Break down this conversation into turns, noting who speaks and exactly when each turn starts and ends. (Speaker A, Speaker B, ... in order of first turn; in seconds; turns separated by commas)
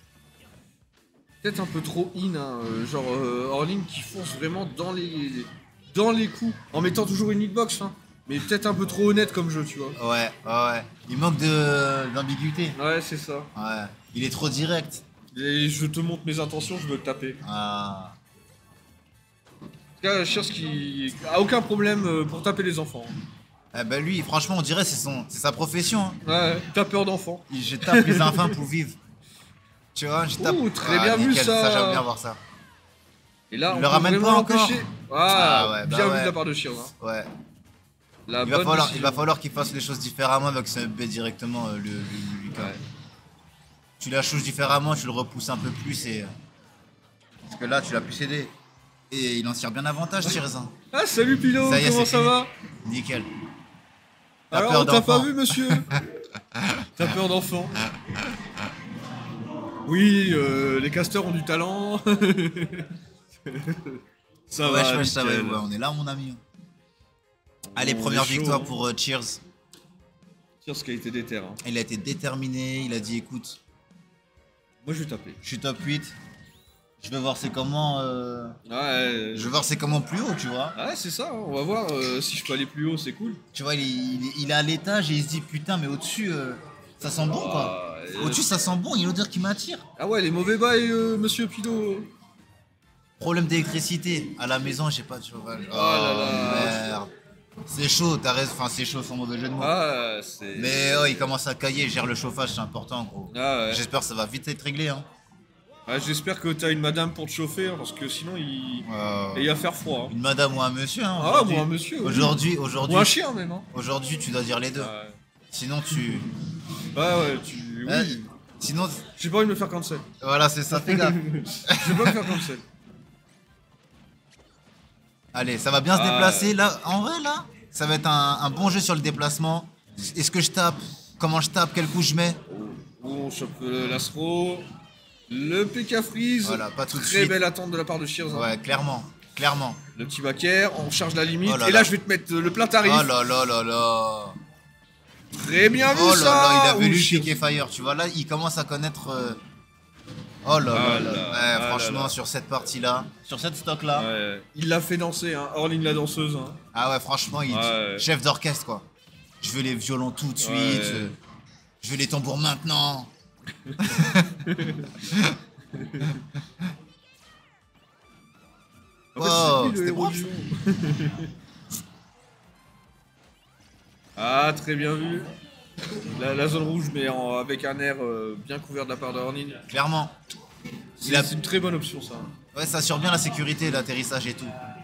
Speaker A: 1.4-10.0, Speaker B: 10.0-12.8, Speaker A: 12.8-13.5, Speaker B: 13.5-15.0, Speaker A: 15.3-17.4, Speaker B: 17.4-18.1, Speaker A: 20.0-23.1, Speaker B: 23.7-26.2, Speaker A: 26.2-28.6, Speaker B: 27.5-28.9, Speaker B: 29.9-32.4, Speaker A: 30.4-32.0, Speaker A: 33.5-36.9, Speaker B: 33.7-36.4, Speaker B: 37.0-37.3, Speaker A: 38.3-39.2, Speaker B: 38.4-42.7, Speaker A: 42.5-42.8, Speaker B: 44.0-46.3, Speaker B: 47.4-48.5, Speaker B: 49.1-50.7, Speaker A: 50.9-52.5, Speaker B: 51.6-52.3, Speaker B: 52.8-53.3, Speaker B: 54.5-55.8, Speaker A: 54.5-56.0, Speaker B: 56.5-57.0, Speaker A: 57.0-57.8, Speaker A: 59.8-62.9, Speaker A: 63.4-65.6, Speaker B: 64.6-66.4, Speaker A: 67.6-68.8, Speaker B: 67.7-69.4, Speaker A: 70.6-71.6, Speaker B: 71.6-73.6, Speaker A: 74.8-75.4, Speaker B: 75.4-76.1, Speaker B: 77.0-78.5, Speaker A: 78.7-79.6, Speaker B: 79.3-80.8, Speaker A: 80.7-83.4, Speaker B: 83.5-89.8, Speaker A: 87.3-88.5, Speaker A: 90.0-92.1, Speaker B: 93.2-97.1, Speaker A: 95.7-96.8, Speaker B: 97.7-99.7, Speaker A: 99.6-101.2, Speaker B: 100.5-105.0, Speaker A: 103.3-103.8, Speaker A: 105.8-110.1, Speaker B: 108.9-109.5, Speaker B: 110.1-113.1, Speaker A: 111.2-113.7, Speaker B: 113.7-114.9, Speaker A: 114.8-115.2, Speaker B: 115.5-116.3, Speaker A: 116.9-118.3, Speaker B: 117.8-119.0, Speaker A: 119.2-120.0, Speaker B: 120.2-122.3, Speaker A: 120.7-122.6, Speaker B: 125.3-132.4, Speaker A: 125.9-126.5, Speaker A: 132.4-134.7, Speaker A: 135.3-138.5, Speaker B: 136.4-137.4, Speaker B: 138.3-139.8, Speaker A: 139.9-143.1, Speaker B: 141.4-141.9, Speaker B: 142.8-144.3, Speaker A: 145.3-147.4, Speaker B: 145.9-149.4, Speaker B: 150.4-154.1, Speaker A: 150.7-152.2, Speaker A: 153.9-156.6, Speaker B: 156.7-158.8, Speaker A: 157.5-158.0, Speaker B: 159.4-161.2, Speaker A: 160.4-161.2, Speaker B: 161.8-163.1, Speaker A: 163.6-165.0, Speaker B: 163.8-164.4, Speaker B: 165.0-165.4, Speaker A: 165.7-166.2, Speaker A: 169.1-171.3, Speaker B: 169.2-170.3, Speaker A: 174.2-175.3, Speaker A: 176.0-179.6, Speaker B: 179.7-180.1, Speaker A: 181.0-182.3, Speaker B: 181.0-181.3, Speaker B: 182.5-184.5